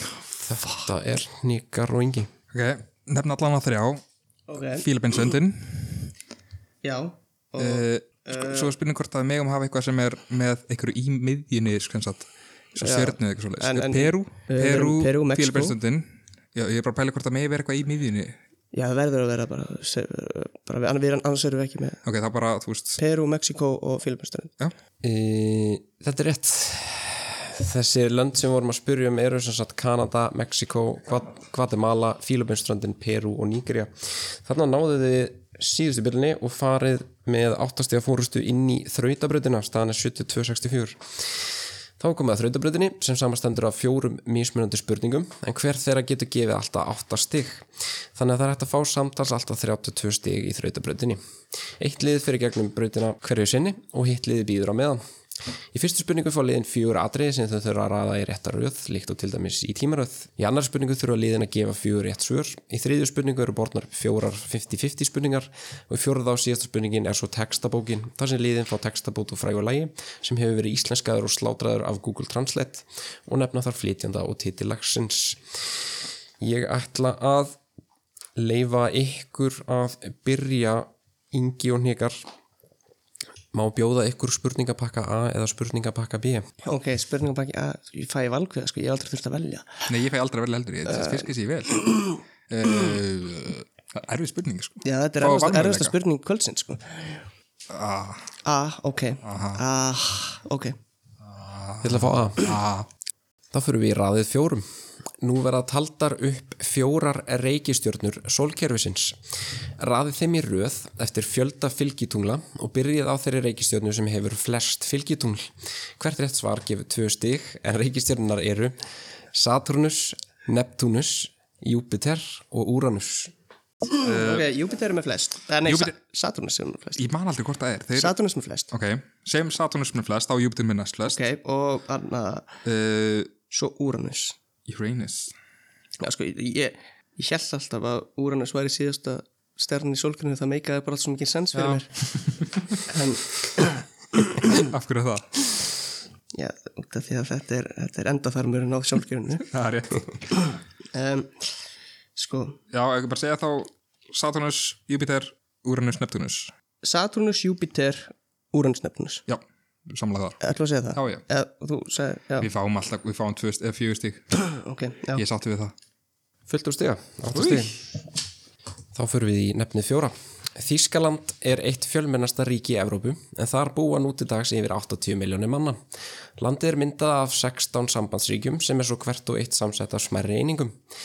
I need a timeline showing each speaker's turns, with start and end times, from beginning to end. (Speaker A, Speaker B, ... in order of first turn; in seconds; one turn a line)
Speaker A: 0.3-2.3
Speaker B: 2.5-4.0
Speaker C: 4.5-4.9
Speaker B: 4.8-6.1
Speaker C: 6.8-8.7
Speaker B: 7.6-18.4
Speaker C: 12.8-15.8
Speaker C: 18.7-22.0
Speaker B: 22.1-23.0
Speaker C: 23.0-24.5
Speaker A: 25.0-41.3
Speaker A: 42.0-51.2
Speaker A: 51.8-55.0
Speaker A: 55.7-75.4
Speaker A: 76.4-77.6
Speaker A: 78.4-82.3
Speaker A: 83.5-86.5
Speaker C: 86.7-89.9
Speaker B: 89.9-91.9
Speaker C: 90.9-91.3
Speaker B: 92.5-96.0
Speaker C: 94.8-97.2
Speaker B: 97.7-98.3
Speaker C: 98.4-100.8
Speaker B: 99.2-99.6
Speaker B: 101.2-102.9
Speaker A: 101.8-102.5
Speaker A: 103.5-104.7
Speaker A: 105.2-109.2
Speaker A: 109.8-118.8
Speaker A: 119.3-123.3
Speaker C: 124.0-127.0
Speaker B: 124.0-124.5
Speaker B: 125.7-125.9
Speaker B: 127.0-128.2
Speaker C: 128.0-128.7
Speaker B: 128.7-131.2
Speaker C: 131.1-132.5
Speaker B: 132.7-133.3
Speaker C: 133.5-134.4
Speaker B: 134.7-135.3
Speaker C: 136.0-141.9
Speaker B: 141.5-142.6
Speaker C: 142.9-143.8
Speaker B: 144.5-145.3
Speaker C: 146.3-149.5
Speaker B: 149.5-150.1
Speaker C: 150.9-151.5
Speaker C: 152.2-152.6
Speaker B: 152.7-156.5
Speaker C: 156.8-159.2
Speaker B: 159.3-160.4
Speaker C: 160.4-162.5
Speaker B: 160.9-161.2
Speaker B: 162.4-164.3
Speaker C: 164.5-165.2
Speaker B: 165.1-165.7
Speaker A: 166.5-167.8
Speaker B: 167.3-167.7
Speaker A: 168.9-175.8
Speaker A: 176.4-180.8